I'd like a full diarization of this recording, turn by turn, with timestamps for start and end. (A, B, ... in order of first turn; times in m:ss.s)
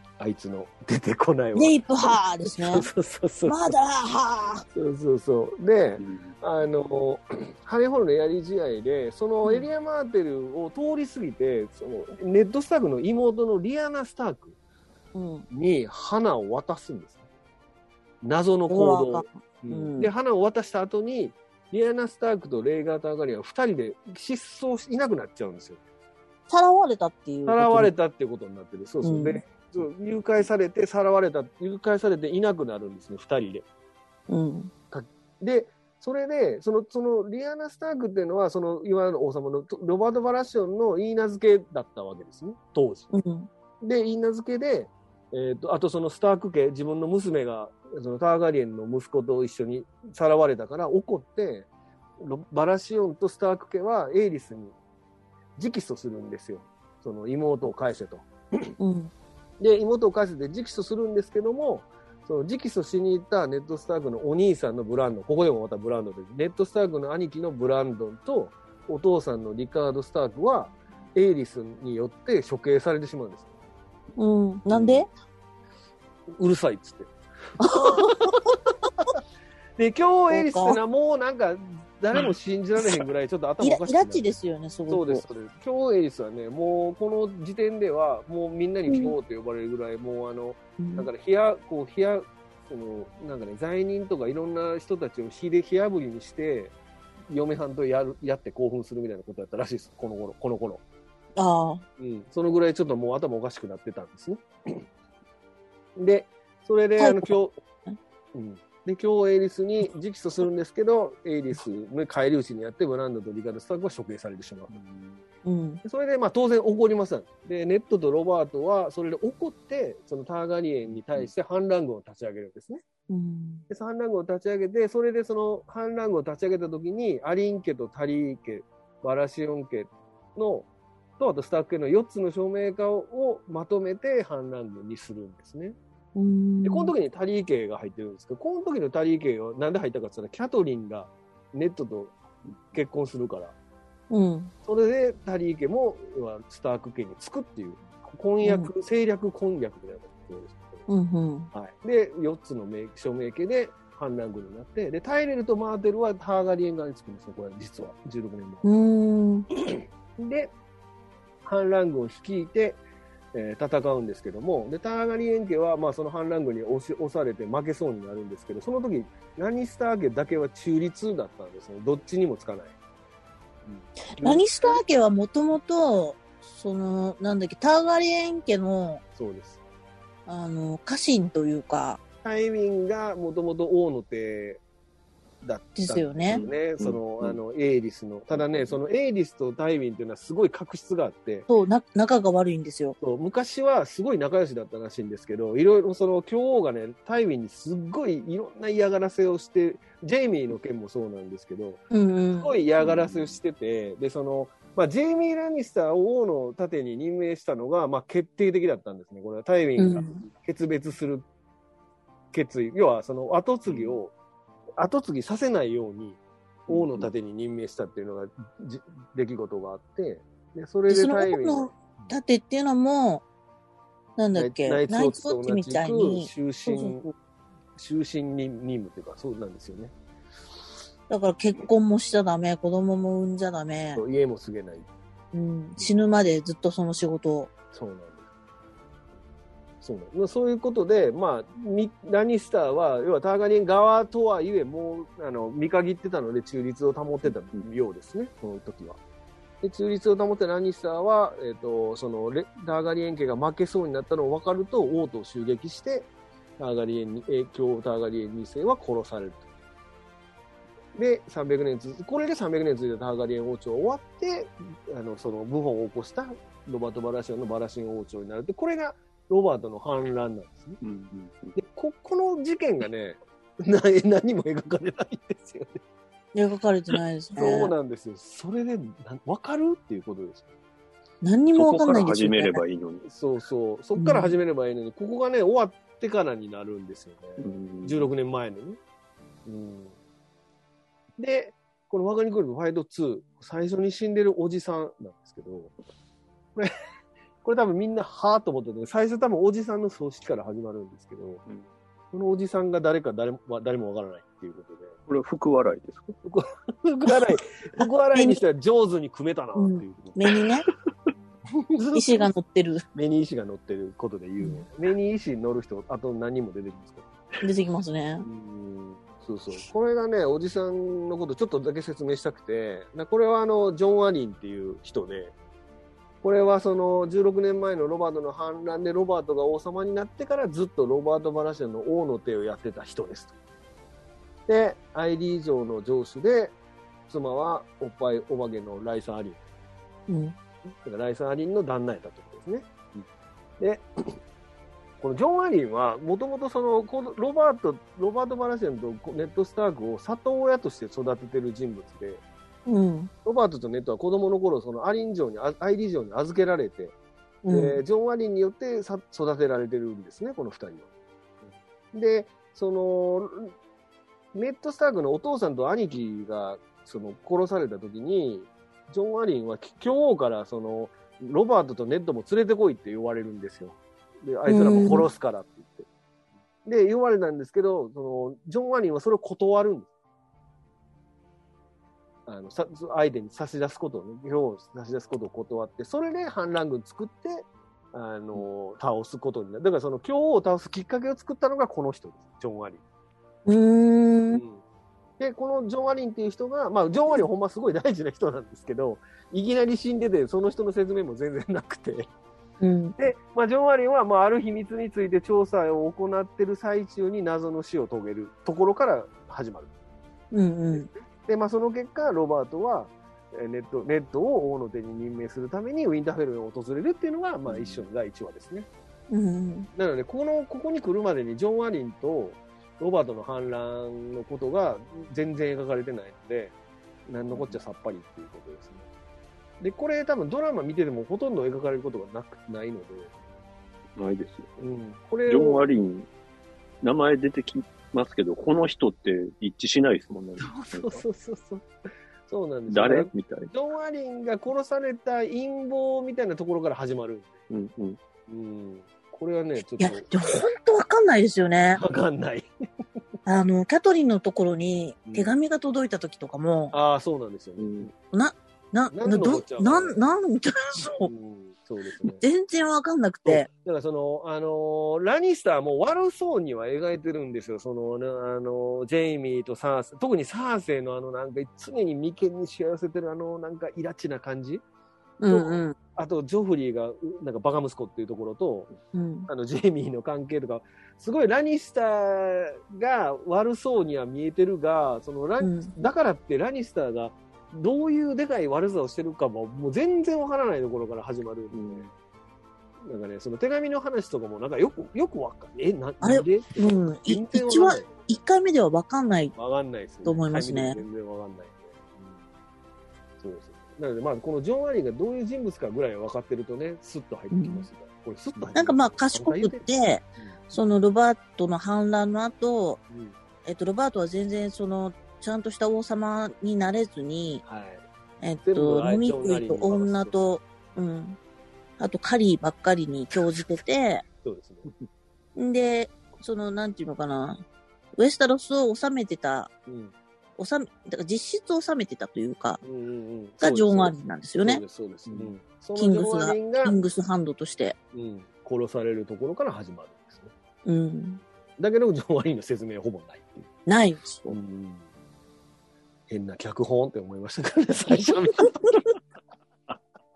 0:00.2-0:03.7 A
0:01.5-0:02.8 B
0:03.5-0:04.6 B
0:04.7-0:14.5 A
0:06.0-0:06.4 C
0:15.1-0:15.5 B
0:15.5-0:17.2 A
0:18.2-0:25.8 A
0:18.7-0:20.1 B
0:26.5-0:27.9 B
0:27.5-0:33.6 A
0:29.0-0:29.4 B
0:34.3-0:34.7 B
0:34.9-0:43.1 A
0:43.1-0:43.5 B
0:43.8-0:51.7 A
0:52.2-0:54.7 A
0:55.6-0:58.3 A
0:58.8-0:59.1 B
0:59.6-1:13.5 A
1:14.2-1:15.1 B
1:14.7-1:15.1 A
1:16.4-1:18.4 A
1:17.6-1:18.4 B
1:19.8-1:24.3 A
1:20.3-1:20.8 B
1:23.6-1:25.2 B
1:24.9-1:36.7 A
1:28.9-1:29.1 B
1:30.8-1:31.1 B
1:37.3-1:40.8 A
1:41.4-1:41.8 B
1:42.0-1:44.8 A
1:46.0-1:47.6 A
1:47.0-1:47.3 B
1:48.3-1:54.7 A
1:54.7-1:55.2 C
1:55.4-1:55.8 B
1:55.8-2:02.8 A
2:00.9-2:01.3 C
2:03.1-2:03.6 B
2:03.7-2:10.7 A
2:11.2-2:15.8 A
2:16.2-2:16.9 B
2:16.6-2:22.2 A
2:22.7-2:23.5 A
2:24.1-2:24.5 B
2:24.6-2:30.9 A
2:28.4-2:28.7 B
2:30.9-2:31.5 B
2:31.5-2:38.7 A
2:38.6-2:39.5 B
2:40.2-2:40.5 A
2:41.4-2:42.8 A
2:43.3-2:52.7 A
2:53.7-2:54.8 A
2:54.2-2:59.0 B
2:59.2-2:59.6 A
3:00.3-3:02.0 B
3:02.2-3:04.6 A
3:05.4-3:11.5 A
3:05.8-3:06.4 B
3:06.3-3:07.4 C
3:08.3-3:08.8 C
3:11.5-3:13.0 B
3:13.0-3:21.8 A
3:21.9-3:22.5 B
3:22.3-3:31.3 A
3:22.8-3:23.4 C
3:29.8-3:30.2 B
3:32.3-3:34.1 A
3:33.7-3:34.0 C
3:34.8-3:42.1 A
3:36.7-3:37.1 C
3:40.9-3:43.2 B
3:44.2-3:47.0 B
3:44.3-3:47.1 A
3:47.8-3:49.9 A
3:51.1-3:54.0 B
3:54.0-3:54.9 A
3:55.3-3:57.5 B
3:57.7-3:58.2 A
3:59.8-4:09.0 A
4:09.6-4:19.5 A
4:21.0-4:30.8 A
4:30.8-4:31.5 C
4:31.5-4:35.8 A
4:36.3-4:37.7 B
4:37.4-4:40.5 A
4:41.2-4:42.6 B
4:41.5-4:43.0 C
4:43.0-4:48.8 A
4:44.0-4:44.4 B
4:47.4-4:48.1 C
4:49.5-4:49.9 A
4:51.2-4:55.7 A
4:57.4-5:01.4 A
5:02.1-5:04.9 A
5:05.1-5:06.1 C
5:06.2-5:10.1 A
5:08.1-5:08.4 B
5:09.5-5:10.7 B
5:11.5-5:12.3 A
5:12.0-5:12.8 B
5:13.0-5:17.1 A
5:17.4-5:18.3 B
5:18.2-5:25.3 A
5:26.2-5:33.3 A
5:34.5-5:36.5 A
5:37.1-5:39.4 A
5:40.1-5:40.4 B
5:40.8-5:42.7 A
5:43.6-5:44.2 A
5:45.0-5:52.2 A
5:52.6-5:53.1 B
5:53.2-5:57.0 A
5:57.4-5:57.8 B
5:57.5-6:00.9 A
6:01.9-6:03.5 A
6:04.3-6:15.9 A
6:14.5-6:15.1 B
6:16.6-6:19.9 A
6:22.3-6:32.8 A
6:33.4-6:34.4 B
6:34.3-6:34.6 A
6:35.2-6:42.1 A
6:42.6-6:43.0 B
6:43.0-6:49.7 A
6:50.3-6:50.9 B
6:50.7-6:58.7 A
6:57.4-6:57.8 C
6:59.1-6:59.7 B
6:59.7-7:06.5 A
7:07.1-7:08.8 A
7:07.3-7:07.6 C
7:09.6-7:13.1 A
7:14.0-7:14.5 C
7:14.6-7:15.6 A
7:15.3-7:16.1 C
7:16.8-7:21.0 C
7:20.4-7:21.7 A
7:22.3-7:27.4 A
7:22.7-7:23.5 C
7:27.5-7:28.0 C
7:28.3-7:30.4 A
7:29.8-7:31.8 B
7:31.8-7:32.5 A
7:33.2-7:36.8 B
7:35.1-7:35.4 A
7:36.7-7:37.9 A
7:37.6-7:37.9 C
7:38.1-7:41.1 B
7:38.9-7:40.0 A
7:41.0-7:42.2 A
7:42.0-7:43.5 B
7:43.2-7:54.6 A
7:55.2-7:55.8 B
7:55.3-7:58.7 A
7:58.9-7:59.3 B
7:59.3-8:11.9 A
8:05.4-8:05.9 B
8:11.5-8:11.9 C
8:12.8-8:18.1 A
8:16.0-8:19.4 B
8:19.3-8:22.2 A
8:20.0-8:20.8 B
8:23.2-8:29.6 A
8:27.3-8:27.7 B
8:28.5-8:32.8 B
8:32.9-8:33.2 A
8:33.4-8:37.4 B
8:37.4-8:37.8 A
8:38.2-8:41.2 B
8:38.4-8:40.1 A
8:41.8-8:44.0 B
8:44.2-8:44.7 A
8:45.4-8:47.4 B
8:48.0-8:49.5 B
8:49.6-8:49.9 A
8:50.4-8:52.6 B
8:52.6-8:56.8 A
8:53.4-8:54.6 B
8:55.8-8:57.8 B
8:57.9-9:00.3 A
9:00.6-9:01.2 B
9:01.6-9:03.5 A
9:03.6-9:04.4 B
9:04.3-9:04.8 A
9:06.1-9:08.7 A